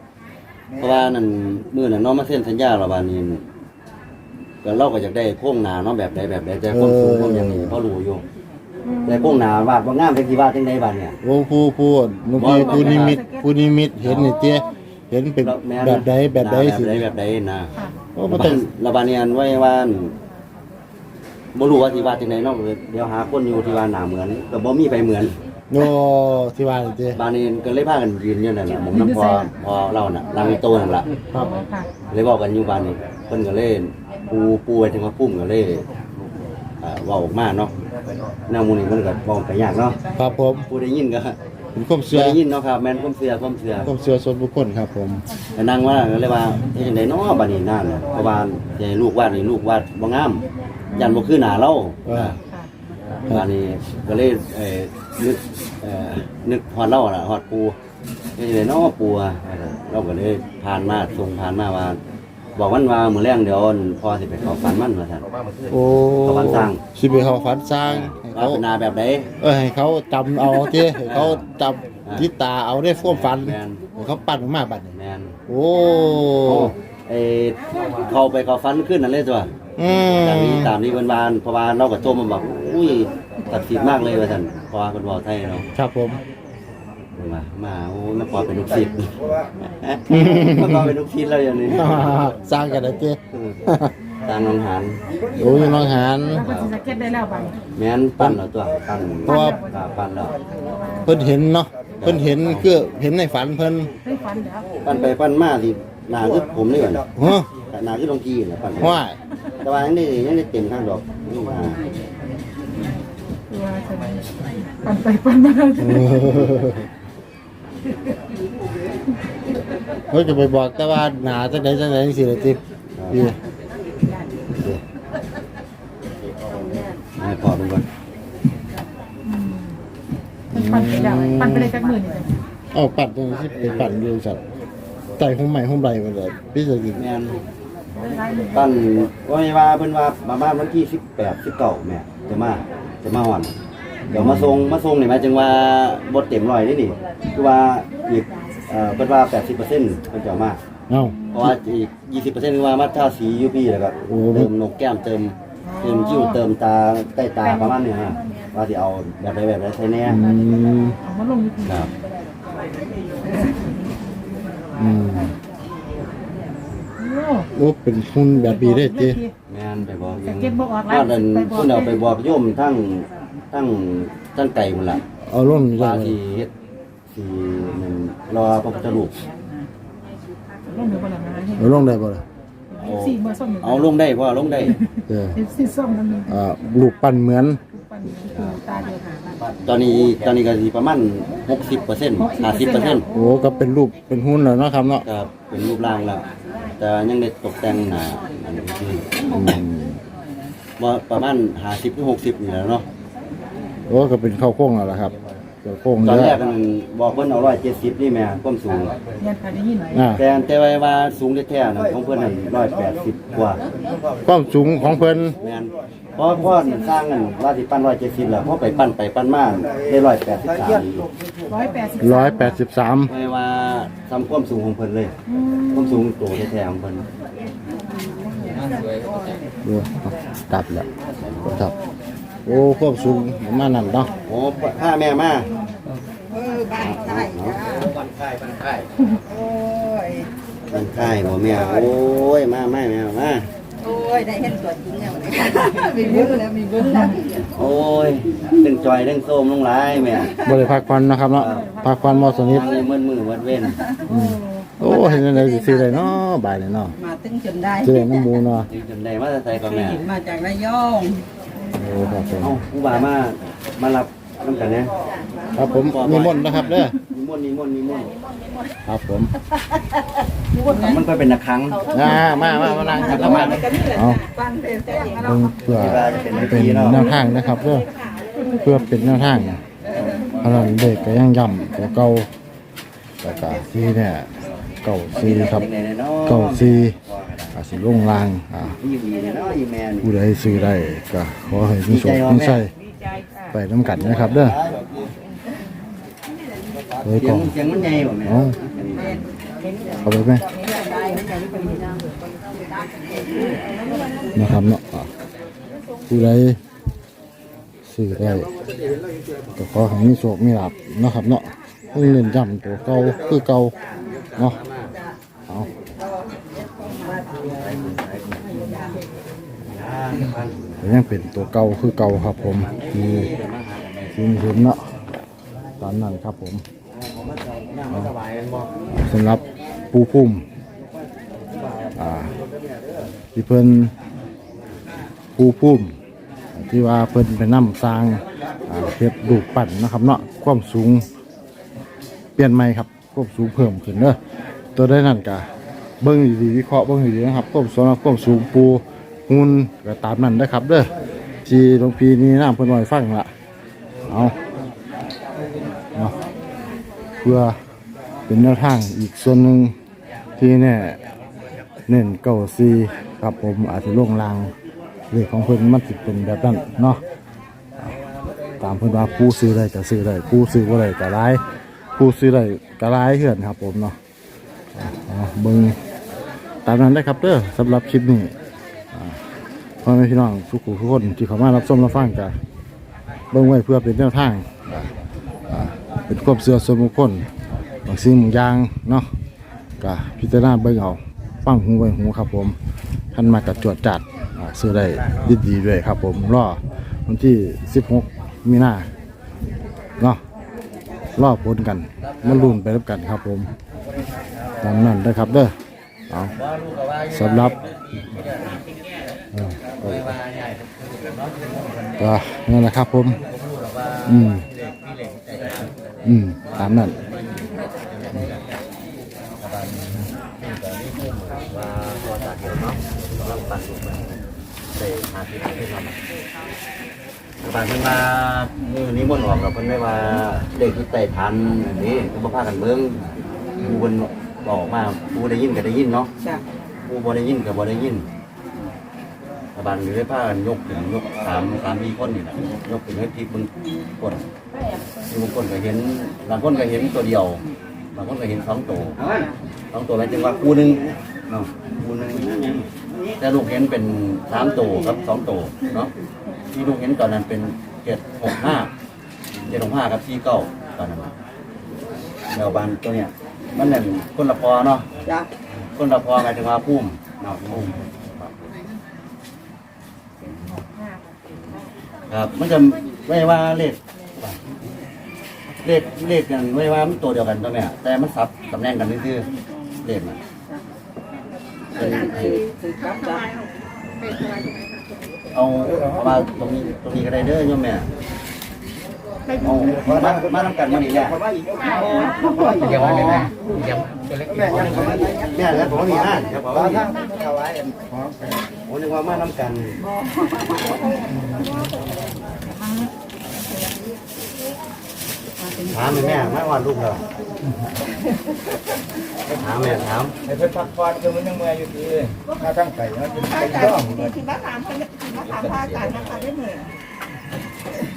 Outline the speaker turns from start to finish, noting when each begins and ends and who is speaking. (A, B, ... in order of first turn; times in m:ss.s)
0:00.7-0:01.1 A
0:00.8-0:03.4 B
0:04.6-0:08.2 B
0:06.7-0:07.8 C
0:08.9-0:09.3 D
0:09.0-0:11.2 B
0:11.2-0:17.1 C
0:12.4-0:13.2 B
0:12.5-0:13.5 D
0:14.0-0:14.3 B
0:15.4-0:17.7 B
0:18.2-0:18.6 C
0:18.3-0:20.2 B
0:21.6-0:25.4 B
0:25.7-0:27.2 C
0:27.1-0:31.1 B
0:28.9-0:29.5 D
0:31.3-0:31.9 D
0:32.1-0:35.8 B
0:36.8-0:37.7 B
0:38.5-0:40.0 B
0:40.2-0:40.6 C
0:40.7-0:41.4 B
0:41.8-0:42.4 C
0:42.1-0:43.9 B
0:43.8-0:45.2 C
0:45.6-0:52.4 B
0:52.1-0:52.3 C
0:53.3-0:57.8 B
0:58.4-1:02.0 B
1:02.6-1:06.8 B
1:05.7-1:08.6 C
1:07.9-1:09.3 B
1:09.4-1:14.9 C
1:11.0-1:11.4 B
1:13.0-1:13.8 B
1:14.9-1:15.4 B
1:15.5-1:16.7 C
1:16.4-1:19.5 B
1:19.8-1:20.7 C
1:20.0-1:25.7 B
1:23.5-1:24.1 A
1:25.7-1:26.2 C
1:27.2-1:29.2 B
1:29.2-1:29.5 A
1:29.7-1:32.3 B
1:30.1-1:30.9 C
1:31.7-1:33.9 C
1:33.3-1:33.6 B
1:34.2-1:35.0 B
1:35.3-1:36.0 A
1:35.4-1:36.5 C
1:36.3-1:37.6 D
1:36.4-1:36.8 B
1:37.8-1:40.4 B
1:39.2-1:39.7 D
1:40.7-1:41.1 D
1:41.1-1:43.9 C
1:42.0-1:42.7 B
1:44.0-1:44.7 D
1:44.8-1:47.1 B
1:47.2-1:47.5 C
1:47.7-1:49.0 B
1:48.8-1:49.2 C
1:49.6-1:51.8 B
1:53.5-1:54.3 D
1:54.8-1:56.0 D
1:55.8-1:56.8 C
2:00.1-2:03.4 C
2:03.0-2:03.3 B
2:07.2-2:07.9 B
2:09.3-2:09.7 D
2:10.5-2:11.8 C
2:10.6-2:12.3 D
2:12.7-2:14.4 C
2:13.6-2:13.9 B
2:15.2-2:17.0 C
2:17.0-2:17.4 B
2:18.0-2:18.7 D
2:18.5-2:23.5 B
2:24.1-2:24.8 C
2:24.1-2:30.6 B
2:30.9-2:31.5 C
2:31.3-2:40.2 B
2:34.1-2:34.5 C
2:35.7-2:36.4 D
2:37.5-2:37.8 D
2:40.1-2:41.0 C
2:41.0-2:41.9 D
2:41.6-2:41.9 B
2:44.8-2:45.4 C
2:47.0-2:47.5 D
2:47.5-2:49.2 C
2:48.4-2:49.3 D
2:49.5-2:55.0 B
2:50.3-2:52.0 D
2:55.3-2:56.2 C
2:55.7-2:56.5 B
2:57.1-2:59.2 B
3:00.7-3:01.7 D
3:01.6-3:02.2 C
3:02.7-3:03.9 D
3:02.8-3:04.8 B
3:05.1-3:05.4 C
3:05.4-3:06.3 D
3:06.3-3:07.6 C
3:07.7-3:09.2 D
3:08.3-3:08.6 B
3:09.6-3:13.1 B
3:12.2-3:13.3 D
3:13.1-3:15.0 C
3:15.0-3:16.3 B
3:16.8-3:19.5 B
3:19.3-3:20.0 C
3:20.8-3:22.8 B
3:23.9-3:26.4 C
3:26.0-3:29.0 B
3:29.2-3:30.0 D
3:29.9-3:30.2 C
3:30.2-3:33.6 B
3:32.7-3:33.0 A
3:33.9-3:34.9 A
3:34.2-3:35.4 C
3:35.4-3:41.1 B
3:41.5-3:42.6 D
3:42.0-3:43.1 C
3:43.1-3:45.1 B
3:45.3-3:46.0 D
3:45.7-3:47.0 B
3:49.6-3:50.9 C
3:51.2-3:51.6 B
3:51.4-3:51.7 C
3:52.5-3:54.1 C
3:54.3-3:55.5 B
3:56.3-3:57.9 E
3:56.8-3:57.7 B
3:59.3-4:00.3 E
4:00.7-4:03.5 B
4:03.8-4:07.4 E
4:07.5-4:10.3 B
4:10.4-4:12.8 C
4:11.3-4:12.6 D
4:11.4-4:11.7 B
4:12.5-4:13.8 B
4:14.1-4:17.0 C
4:14.1-4:14.7 D
4:14.8-4:16.0 E
4:17.0-4:18.0 E
4:17.8-4:18.7 C
4:18.7-4:20.0 B
4:19.8-4:21.3 E
4:21.7-4:22.0 D
4:21.8-4:22.6 C
4:22.4-4:24.9 B
4:25.6-4:27.0 C
4:25.7-4:28.1 B
4:28.8-4:29.3 C
4:30.6-4:31.8 B
4:31.9-4:34.3 C
4:32.5-4:32.8 E
4:32.9-4:33.8 B
4:33.5-4:35.4 E
4:35.1-4:37.9 C
4:35.7-4:37.2 B
4:38.5-4:39.6 C
4:40.0-4:41.2 B
4:40.4-4:42.3 C
4:43.2-4:44.3 C
4:44.8-4:45.7 C
4:45.1-4:47.6 B
4:46.3-4:47.0 C
4:47.6-4:48.8 C
4:48.6-4:50.1 B
4:50.0-4:52.7 C
4:51.9-4:52.6 B
4:53.5-4:54.6 C
4:53.8-4:55.1 B
4:57.0-4:57.5 C
4:57.2-4:59.3 B
4:58.2-4:58.6 C
5:00.0-5:00.5 C
5:00.4-5:01.8 E
5:03.3-5:03.6 E
5:04.4-5:05.1 C
5:06.1-5:06.6 C
5:07.8-5:08.5 C
5:09.6-5:13.8 C
5:14.0-5:14.9 B
5:17.3-5:18.5 B
5:19.7-5:20.9 B
5:20.8-5:23.3 C
5:22.4-5:24.2 B
5:24.1-5:24.8 C
5:25.8-5:26.6 C
5:27.0-5:28.7 B
5:28.9-5:30.4 C
5:32.0-5:32.4 C
5:33.4-5:33.9 C
5:35.4-5:36.0 C
5:36.6-5:41.1 C
5:42.4-5:44.2 C
5:44.8-5:45.5 C
5:46.0-5:50.9 C
5:51.5-5:53.3 C
5:54.1-5:54.4 C
5:57.2-5:57.6 C
5:58.3-5:59.8 C
6:00.4-6:01.0 C
6:01.9-6:04.5 C
6:05.1-6:07.0 C
6:08.6-6:11.4 C
6:12.0-6:14.0 C
6:14.8-6:15.8 C
6:16.6-6:18.3 C
6:18.9-6:19.2 C
6:19.8-6:22.4 C
6:23.3-6:24.8 C
6:25.5-6:27.3 C
6:27.9-6:29.1 C
6:29.8-6:32.6 C
6:33.1-6:38.9 C
6:41.2-6:43.5 C
6:42.0-6:42.5 B
6:44.6-6:45.6 C
6:46.4-6:48.6 B
6:47.1-6:47.6 C
6:49.3-6:50.1 C
6:49.7-6:52.0 B
6:52.0-6:53.2 C
6:53.2-6:55.7 B
6:54.1-6:54.4 C
6:56.0-6:57.0 C
6:56.4-6:58.4 B
6:59.4-7:04.1 B
7:04.7-7:06.0 B
7:07.4-7:13.1 B
7:13.6-7:16.1 B
7:16.9-7:18.1 B
7:19.6-7:24.2 B
7:25.1-7:27.4 B
7:28.0-7:29.0 B
7:29.7-7:32.7 B
7:33.2-7:35.9 B
7:36.5-7:38.7 B
7:39.4-7:41.1 B
7:42.3-7:44.9 B
7:45.6-7:48.3 B
7:52.1-7:54.4 B
7:55.6-7:59.3 B
7:59.8-8:00.2 B
8:01.8-8:02.4 B
8:02.0-8:03.3 E
8:05.3-8:07.9 B
8:09.4-8:13.3 B
8:09.6-8:13.2 A
8:14.3-8:18.5 A
8:14.3-8:16.9 B
8:18.7-8:19.8 B
8:25.6-8:27.0 B
8:29.3-8:30.2 B
8:30.3-8:34.2 A
8:35.1-8:36.2 B
8:36.1-8:36.6 D